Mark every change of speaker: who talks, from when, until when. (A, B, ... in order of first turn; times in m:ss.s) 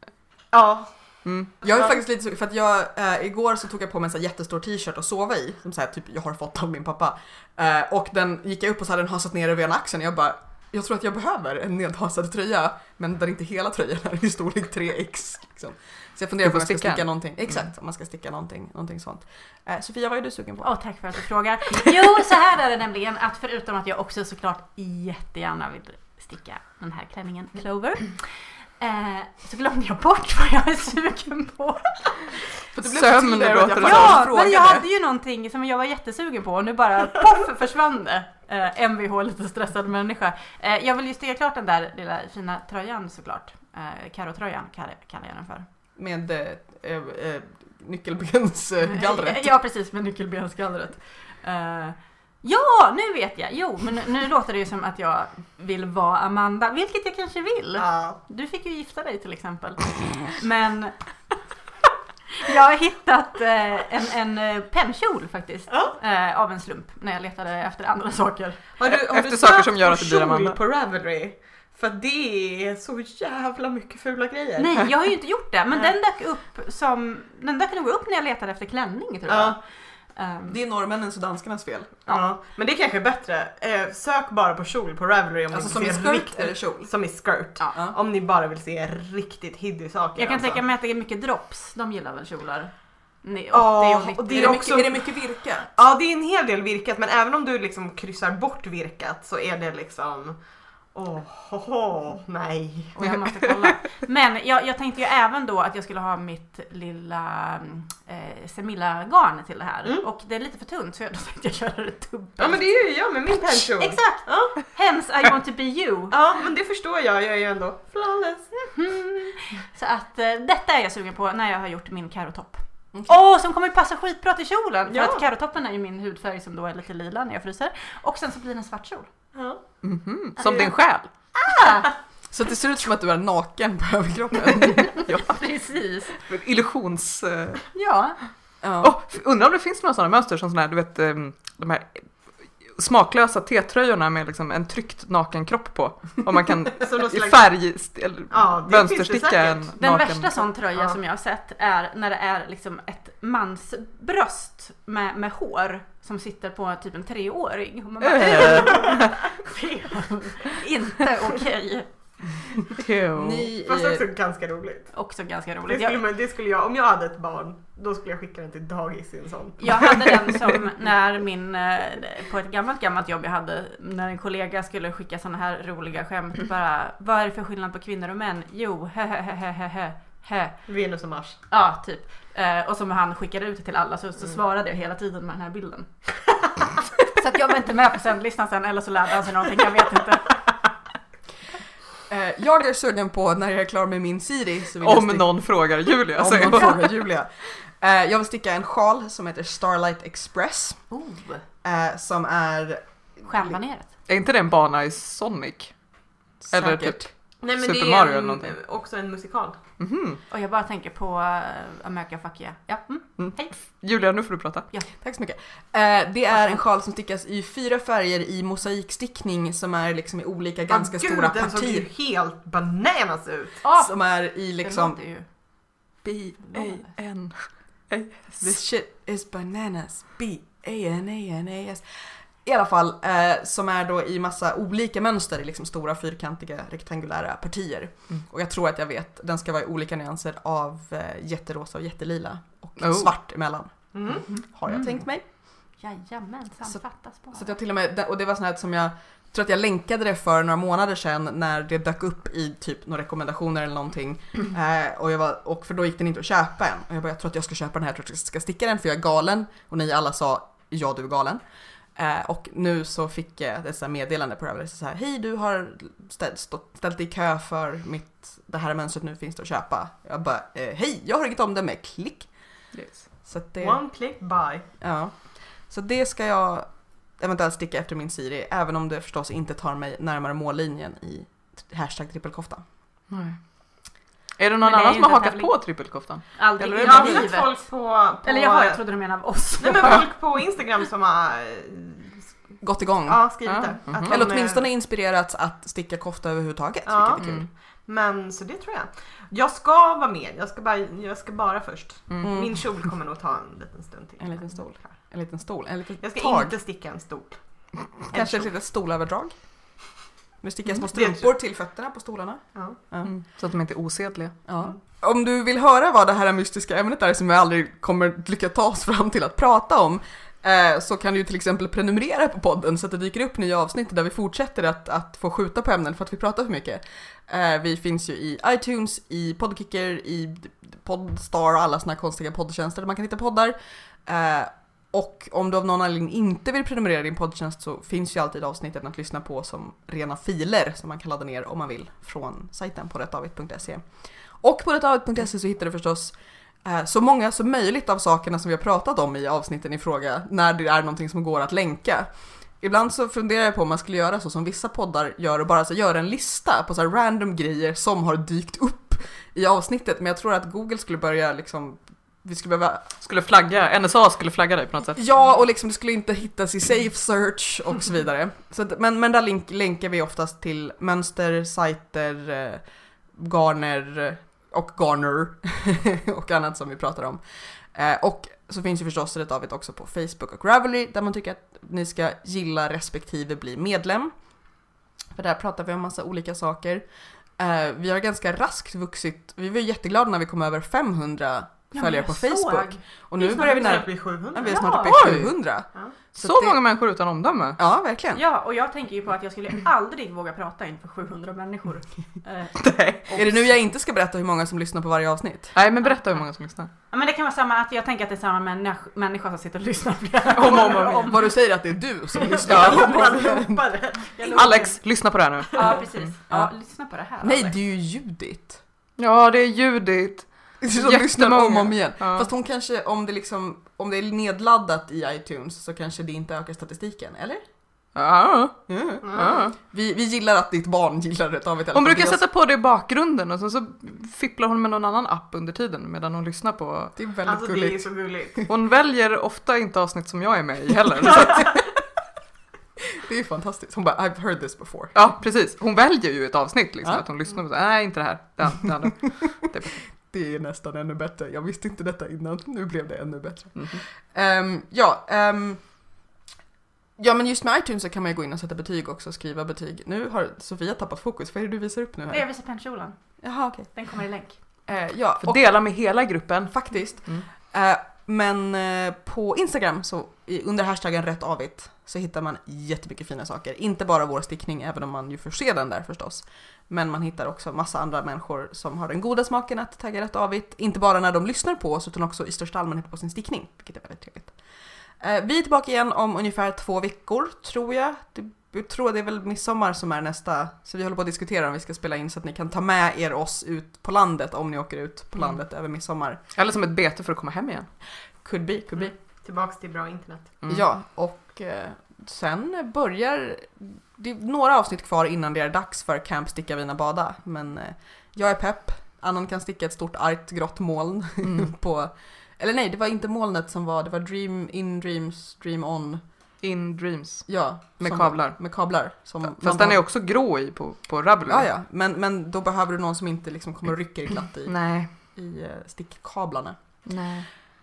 0:00.5-0:01.9 A
0:01.2-0:01.5 B
0:01.6-0:20.7 C
0:16.4-0:17.6 B
0:20.6-0:32.4 D
0:32.7-0:34.9 C
0:32.8-0:34.2 B
0:33.8-0:45.7 D
0:46.0-0:49.5 C
0:48.8-1:00.9 D
0:57.8-0:58.2 A
1:02.3-1:08.6 D
1:05.7-1:06.0 A
1:08.8-1:14.9 A
1:08.9-1:10.6 B
1:14.6-1:20.6 D
1:19.3-1:19.6 A
1:20.5-1:22.0 C
1:22.1-1:30.6 A
1:25.5-1:26.9 C
1:30.2-1:32.7 D
1:33.2-1:34.7 D
1:33.5-1:40.4 A
1:34.3-1:35.7 C
1:40.9-1:43.0 A
1:42.9-1:52.7 D
1:52.4-1:54.6 A
1:53.4-1:56.2 D
1:56.1-1:58.6 A
1:58.7-2:09.1 D
2:04.9-2:05.2 A
2:09.4-2:09.6 A
2:09.8-2:11.1 B
2:10.4-2:10.7 A
2:11.4-2:11.9 D
2:12.3-2:15.1 C
2:14.9-2:17.7 B
2:15.2-2:16.1 D
2:17.7-2:18.2 D
2:18.6-2:18.9 C
2:18.8-2:30.5 B
2:26.8-2:27.6 A
2:28.3-2:29.7 A
2:29.8-2:41.9 D
2:38.0-2:39.2 B
2:42.7-2:43.5 B
2:43.2-2:44.1 C
2:43.6-2:45.0 A
2:44.9-2:46.0 D
2:45.7-2:50.1 A
2:49.6-3:00.6 D
3:00.7-3:01.4 A
3:01.5-3:06.3 D
3:07.0-3:10.5 D
3:12.1-3:15.5 C
3:14.8-3:16.8 B
3:16.2-3:20.8 C
3:16.3-3:16.7 D
3:20.9-3:21.4 D
3:21.6-3:23.6 C
3:23.2-3:23.9 D
3:24.1-3:25.7 B
3:26.4-3:27.1 C
3:26.5-3:28.6 B
3:27.4-3:29.6 A
3:29.8-3:30.2 B
3:30.3-3:33.6 D
3:33.2-3:34.7 B
3:35.0-3:41.9 C
3:40.7-3:43.6 A
3:43.6-3:44.0 D
3:43.8-3:45.0 C
3:44.6-3:45.3 D
3:46.0-3:48.5 B
3:46.5-3:46.9 D
3:48.4-4:05.2 C
4:02.8-4:03.1 B
4:03.9-4:04.3 A
4:05.8-4:07.6 D
4:07.3-4:21.4 C
4:22.0-4:32.3 C
4:32.7-4:33.1 B
4:33.2-4:33.8 C
4:33.6-4:34.7 A
4:34.8-4:42.6 C
4:43.1-4:47.3 B
4:44.6-4:45.7 D
4:46.2-4:47.7 D
4:46.8-4:48.8 A
4:48.2-4:50.1 D
4:49.6-4:52.4 A
4:52.6-4:57.4 C
4:53.1-4:54.6 A
4:53.4-4:54.2 B
4:56.9-5:04.6 A
4:57.2-4:57.5 B
5:02.1-5:02.4 B
5:02.2-5:02.5 C
5:04.2-5:06.6 C
5:06.0-5:07.4 A
5:08.1-5:08.5 A
5:08.1-5:09.3 C
5:10.4-5:13.1 C
5:10.9-5:11.3 A
5:13.0-5:14.4 B
5:14.5-5:43.9 C
5:44.4-6:02.9 C
6:03.0-6:05.0 B
6:05.0-6:12.6 C
6:13.2-6:17.2 C
6:17.7-6:24.1 C
6:25.1-6:36.6 C
6:31.7-6:35.0 D
6:33.2-6:34.6 A
6:34.8-6:35.4 B
6:36.2-6:37.6 B
6:37.6-6:38.2 C
6:38.2-6:43.2 D
6:42.6-6:43.1 B
6:43.1-6:45.6 C
6:45.6-6:46.7 B
6:46.9-6:51.4 D
6:50.3-6:51.2 B
6:50.5-6:50.8 A
6:50.9-6:53.7 C
6:52.3-6:54.8 A
6:52.3-6:52.9 D
6:52.5-6:53.0 B
6:54.2-6:54.8 D
6:54.3-6:56.1 B
6:55.5-6:55.8 A
6:55.5-6:57.5 D
6:57.2-6:58.6 C
6:59.0-7:02.3 B
7:00.6-7:07.4 C
7:08.0-7:09.6 B
7:08.7-7:12.2 C
7:09.0-7:09.4 A
7:11.7-7:17.0 B
7:17.0-7:18.5 C
7:17.3-7:18.4 A
7:18.5-7:21.6 B
7:22.9-7:25.0 C
7:25.0-7:29.9 B
7:30.0-7:35.6 C
7:33.6-7:33.8 B
7:37.0-7:42.3 C
7:42.1-7:43.0 D
7:43.2-7:43.7 C
7:43.7-7:44.4 D
7:44.7-7:45.5 C
7:45.2-7:47.2 B
7:46.5-8:04.4 C
8:05.0-8:16.2 C
8:16.4-8:17.7 B
8:18.2-8:18.9 C
8:18.8-8:20.4 A
8:20.5-8:36.0 C
8:31.2-8:31.5 B
8:36.4-8:41.5 B
8:37.3-8:39.8 C
8:41.3-8:46.6 C
8:44.4-8:44.9 B
8:46.8-8:47.3 B